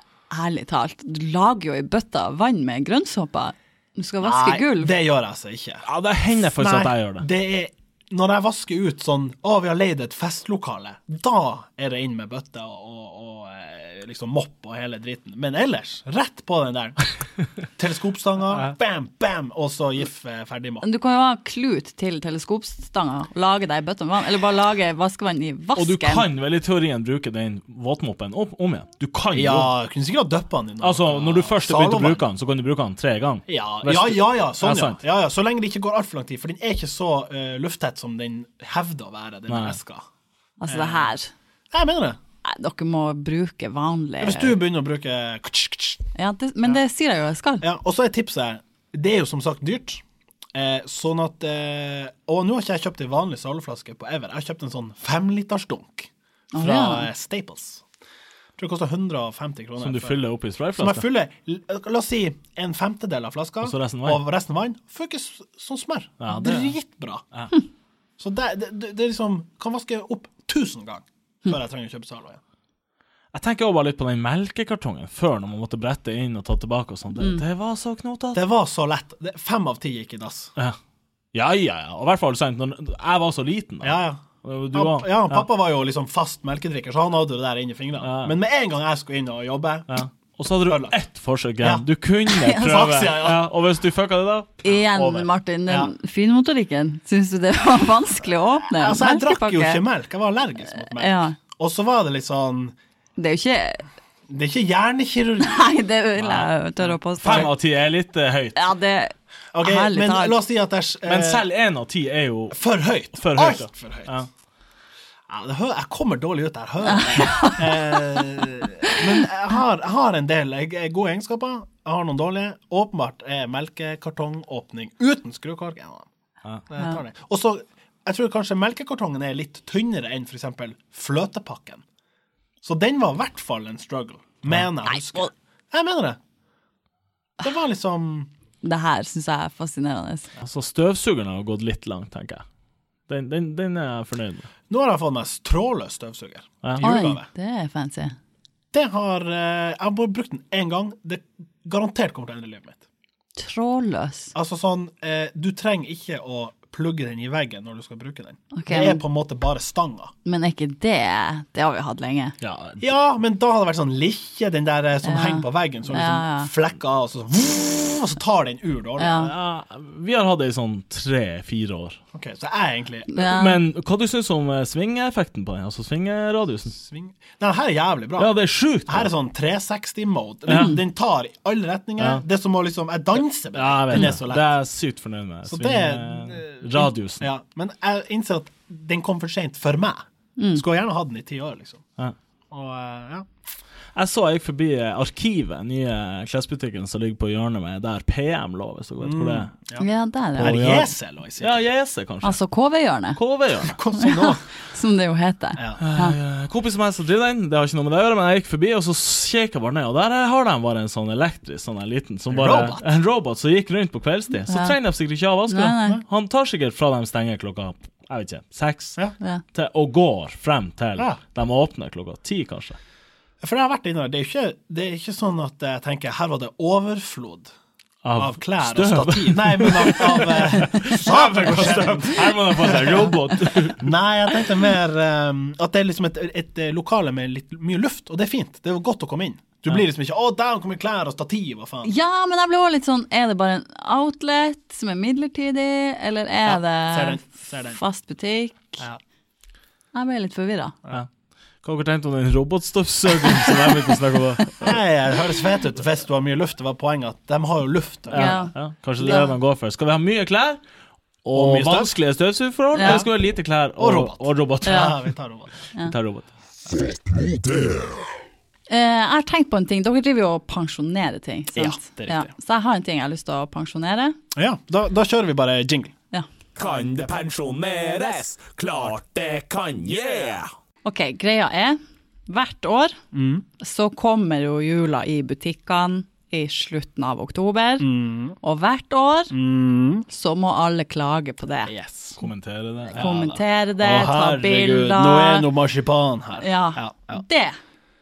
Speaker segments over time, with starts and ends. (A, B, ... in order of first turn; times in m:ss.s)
0:00.3-0:04.9 A
0:04.2-0:05.8 B
0:05.8-0:07.3 C
0:06.6-0:17.1 B
0:17.8-0:20.8 B
0:20.8-0:26.2 A
0:25.8-0:29.7 C
0:29.3-0:32.2 B
0:30.8-0:35.0 C
0:33.5-0:40.0 B
0:39.5-0:39.8 C
0:40.6-0:41.3 A
0:40.7-0:41.1 B
0:41.7-0:42.2 B
0:42.4-0:44.6 A
0:44.2-0:46.1 B
0:46.2-0:47.6 A
0:47.6-0:50.0 B
0:50.5-0:57.8 B
0:56.5-0:57.1 A
0:58.6-1:00.2 B
0:59.8-1:01.0 C
1:00.8-1:07.2 B
1:03.6-1:04.2 C
1:06.2-1:06.7 C
1:08.2-1:12.4 B
1:13.3-1:18.4 C
1:18.3-1:20.5 B
1:21.3-1:25.4 C
1:23.8-1:30.0 B
1:28.0-1:28.4 C
1:29.9-1:35.3 C
1:30.6-1:31.0 B
1:31.6-1:31.8 B
1:32.4-1:32.6 A
1:32.5-1:33.5 B
1:34.6-1:39.8 A
1:35.7-1:35.9 B
1:38.7-1:42.8 B
1:40.8-1:41.4 A
1:43.2-1:43.8 A
1:44.3-1:45.6 B
1:45.4-1:47.5 A
1:47.2-1:48.6 C
1:47.2-1:47.5 B
1:48.6-1:50.4 A
1:49.5-1:51.5 B
1:51.0-1:52.6 C
1:52.5-1:54.2 B
1:53.2-1:54.3 C
1:55.3-2:06.1 B
1:56.8-1:58.2 A
2:06.7-2:11.8 B
2:12.6-2:16.2 B
2:14.9-2:15.3 A
2:17.4-2:18.3 B
2:18.6-2:20.3 A
2:20.4-2:22.4 C
2:23.1-2:24.5 C
2:24.7-2:27.3 B
2:26.8-2:28.2 A
2:28.7-2:32.8 B
2:33.4-2:34.3 A
2:34.3-2:40.1 B
2:38.5-2:39.0 A
2:40.2-2:42.3 A
2:42.4-2:42.9 C
2:42.8-2:49.3 B
2:45.0-2:46.5 A
2:49.0-2:49.3 A
2:49.1-2:52.0 C
2:52.1-2:53.1 B
2:53.1-2:53.6 A
2:53.2-2:56.8 C
2:56.7-2:58.3 B
2:58.2-2:59.1 C
2:58.9-3:04.5 B
3:00.5-3:00.8 C
3:00.5-3:00.8 A
3:03.5-3:07.3 C
3:05.5-3:10.0 B
3:10.4-3:10.6 A
3:10.6-3:11.8 B
3:12.5-3:13.3 B
3:14.0-3:19.5 C
3:19.0-3:19.9 B
3:19.8-3:20.6 A
3:20.4-3:21.6 B
3:20.4-3:22.4 C
3:22.2-3:23.2 A
3:23.2-3:23.8 C
3:23.6-3:24.4 B
3:24.0-3:26.2 A
3:25.8-3:39.0 C
3:32.3-3:32.8 B
3:34.5-3:34.8 A
3:35.5-3:36.0 A
3:39.5-3:42.8 C
3:43.4-3:47.5 B
3:48.0-3:53.8 C
3:48.2-3:53.2 B
3:53.7-4:01.9 B
4:01.8-4:08.8 A
4:06.5-4:07.8 B
4:09.9-4:10.8 A
4:11.6-4:14.8 C
4:14.6-4:18.5 B
4:18.1-4:20.6 C
4:18.1-4:19.3 A
4:21.2-4:25.0 C
4:21.3-4:21.9 B
4:22.8-4:23.0 A
4:22.8-4:23.1 B
4:23.8-4:25.6 B
4:24.6-4:24.9 A
4:25.8-4:26.3 C
4:28.7-4:34.2 A
4:31.5-4:32.3 B
4:34.3-4:35.9 B
4:36.6-4:40.5 D
4:40.8-4:43.0 A
4:43.1-4:43.4 B
4:43.6-4:49.3 A
4:47.8-4:48.4 B
4:49.3-4:50.1 B
4:50.1-4:51.7 A
4:51.7-4:52.2 B
4:52.2-4:53.2 C
4:52.9-4:57.2 B
4:53.0-4:55.5 A
4:56.4-4:57.6 A